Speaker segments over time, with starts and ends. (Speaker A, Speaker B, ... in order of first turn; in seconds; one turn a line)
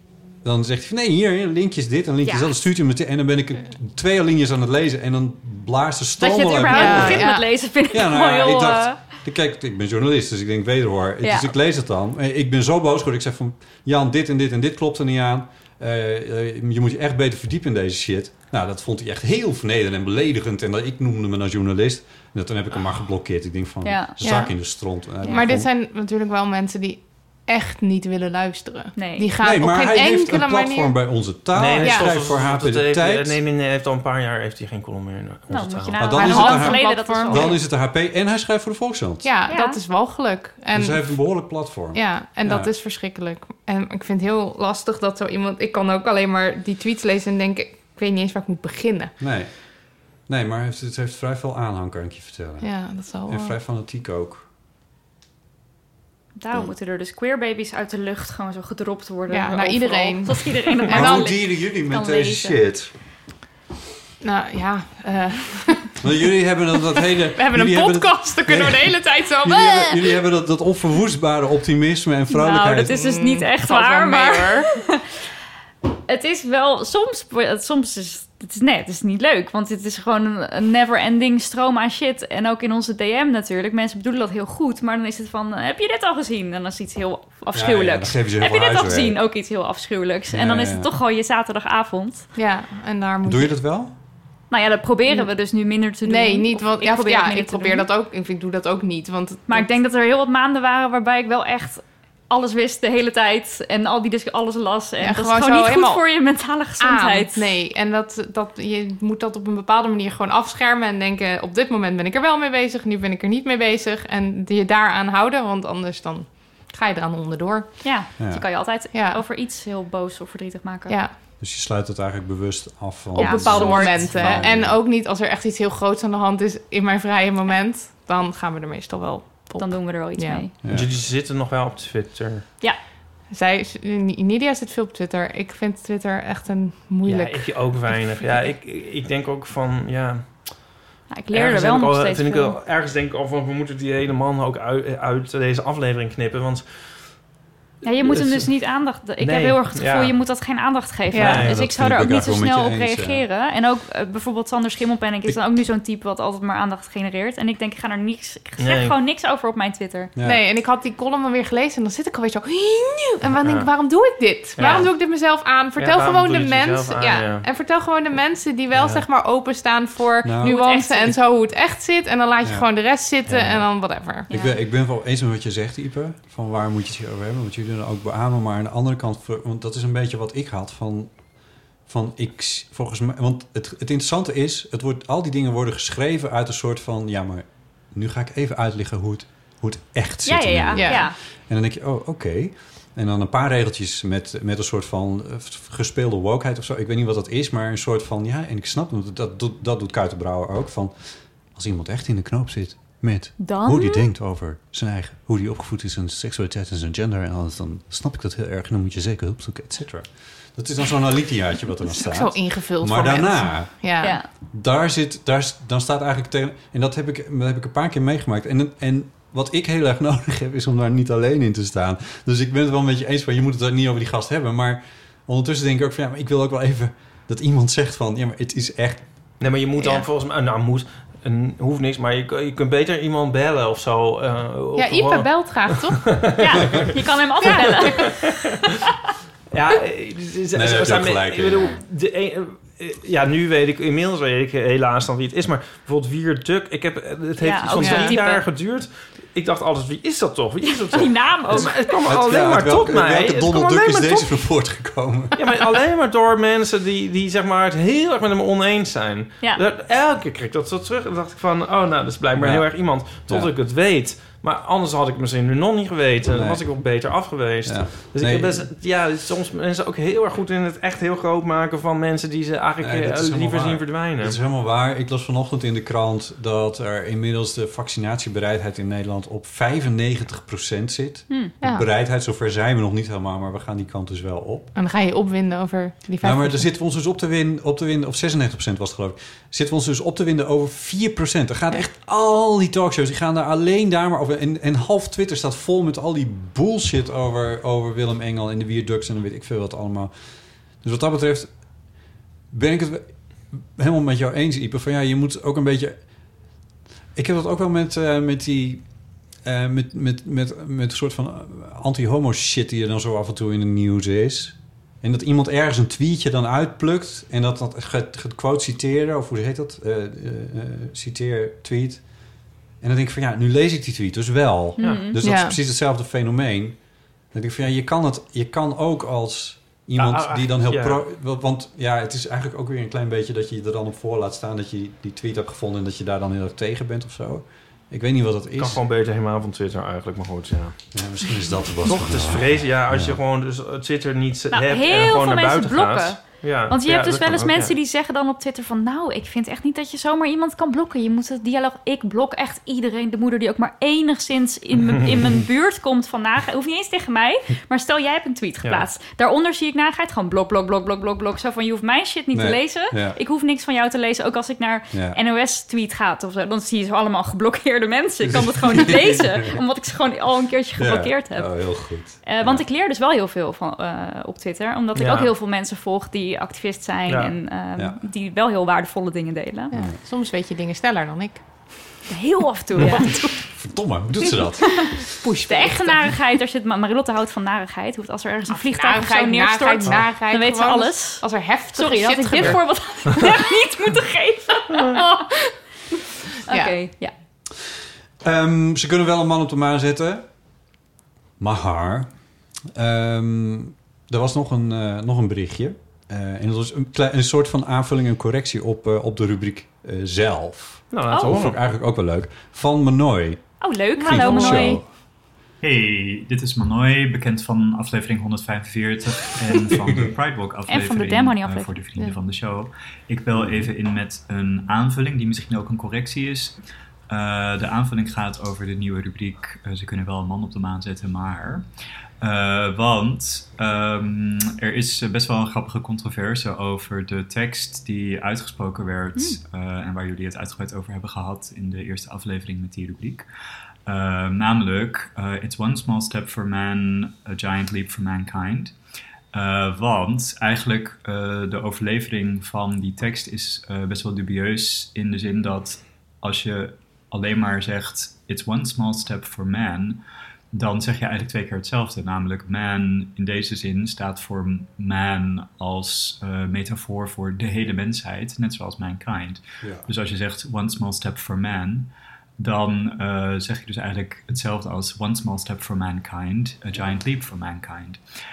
Speaker A: 0.4-25.7
Speaker B: 2.2-2.6
Speaker B: 6.2-9.0
Speaker C: 6.6-7.5
Speaker B: 11.2-11.5
Speaker B: 23.8-24.4
Speaker C: 24.2-31.3
Speaker B: 25.2-25.5
Speaker B: 28.9-29.3
Speaker A: 29.4-33.4
Speaker D: 31.5-36.0
Speaker C: 31.8-32.1
Speaker B: 35.5-37.6
Speaker A: 35.9-39.3
Speaker C: 36.1-37.6
Speaker C: 39.2-49.1
Speaker B: 39.5-39.8
Speaker A: 40.7-42.7
Speaker A: 49.2-54.5
Speaker C: 52.6-53.5
Speaker B: 56.4-62.6
Speaker C: 59.3-61.3
Speaker A: 60.9-62.9
Speaker C: 64.2-66.0
Speaker A: 66.0-73.1
Speaker C: 67.0-70.1
Speaker B: 72.3-75.0
Speaker C: 72.8-74.7
Speaker B: 76.1-92.3
Speaker A: 87.5-89.2
Speaker A: 90.3-90.9
Speaker C: 92.3-93.6
Speaker A: 93.2-93.9
Speaker B: 94.5-97.9
Speaker C: 96.0-99.7
Speaker B: 99.5-107.4
Speaker C: 105.0-106.0
Speaker C: 106.8-118.2
Speaker B: 117.8-121.0
Speaker A: 118.2-118.5
Speaker C: 118.9-119.2
Speaker C: 120.9-121.1
Speaker A: 121.4-124.8
Speaker B: 123.1-124.5
Speaker C: 123.2-130.4
Speaker B: 129.6-130.5
Speaker A: 130.6-130.9
Speaker D: 130.7-132.5
Speaker C: 133.3-138.0
Speaker D: 137.0-140.8
Speaker B: 138.2-138.5
Speaker B: 141.1-142.6
Speaker D: 141.3-147.3
Speaker B: 147.8-160.1
Speaker D: 148.0-150.2
Speaker C: 151.1-151.4
Speaker D: 151.1-151.6
Speaker A: 151.4-153.2
Speaker D: 158.6-158.9
Speaker A: 160.2-160.4
Speaker C: 160.2-174.3
Speaker D: 163.4-163.7
Speaker D: 164.6-164.9
Speaker D: 165.8-167.4
Speaker A: 168.7-169.0
Speaker A: 170.2-170.5
Speaker B: 170.4-171.2
Speaker A: 172.4-181.3
Speaker B: 174.3-174.6
Speaker A: 181.8-229.3
Speaker B: 190.2-191.2
Speaker C: 190.8-191.0
Speaker B: 203.4-204.1
Speaker C: 211.9-214.2
Speaker B: 214.0-214.3
Speaker D: 229.4-235.8
Speaker C: 229.8-230.1
Speaker C: 234.8-236.2
Speaker B: 236.4-238.3
Speaker C: 237.4-237.9
Speaker D: 237.5-238.2
Speaker D: 239.5-254.3
Speaker A: 240.5-241.8
Speaker B: 247.4-248.4
Speaker C: 247.8-248.2
Speaker B: 250.8-251.8
Speaker A: 252.0-255.3
Speaker D: 255.3-274.4
Speaker A: 262.3-263.5
Speaker A: 266.2-267.1
Speaker A: 267.6-268.7
Speaker A: 272.8-284.7
Speaker C: 281.6-281.9
Speaker C: 284.7-286.6
Speaker A: 286.2-306.0
Speaker A: 307.1-338.8
Speaker B: 324.8-325.2
Speaker D: 324.8-325.1
Speaker C: 325.2-325.6
Speaker D: 330.0-331.0
Speaker D: 338.6-340.9
Speaker A: 340.9-343.2
Speaker D: 341.9-347.7
Speaker B: 344.5-379.7
Speaker A: 362.3-363.2
Speaker A: 364.9-365.2
Speaker A: 368.2-369.6
Speaker A: 370.8-372.6
Speaker D: 374.9-375.3
Speaker D: 377.1-377.3
Speaker A: 377.8-378.0
Speaker A: 379.7-380.0
Speaker C: 379.7-381.9
Speaker B: 382.1-383.8
Speaker A: 383.2-385.1
Speaker C: 385.2-386.0
Speaker B: 385.4-395.2
Speaker C: 388.5-392.8
Speaker B: 396.4-397.1
Speaker C: 396.5-396.7
Speaker A: 398.2-400.3
Speaker A: 401.4-414.9
Speaker D: 410.9-411.6
Speaker B: 413.6-414.8
Speaker C: 414.0-414.8
Speaker E: 415.6-431.6
Speaker B: 420.7-421.8
Speaker E: 432.2-443.2
Speaker E: 443.9-448.7
Speaker E: 449.3-460.0
Speaker E: 460.5-478.0
Speaker A: 469.6-469.9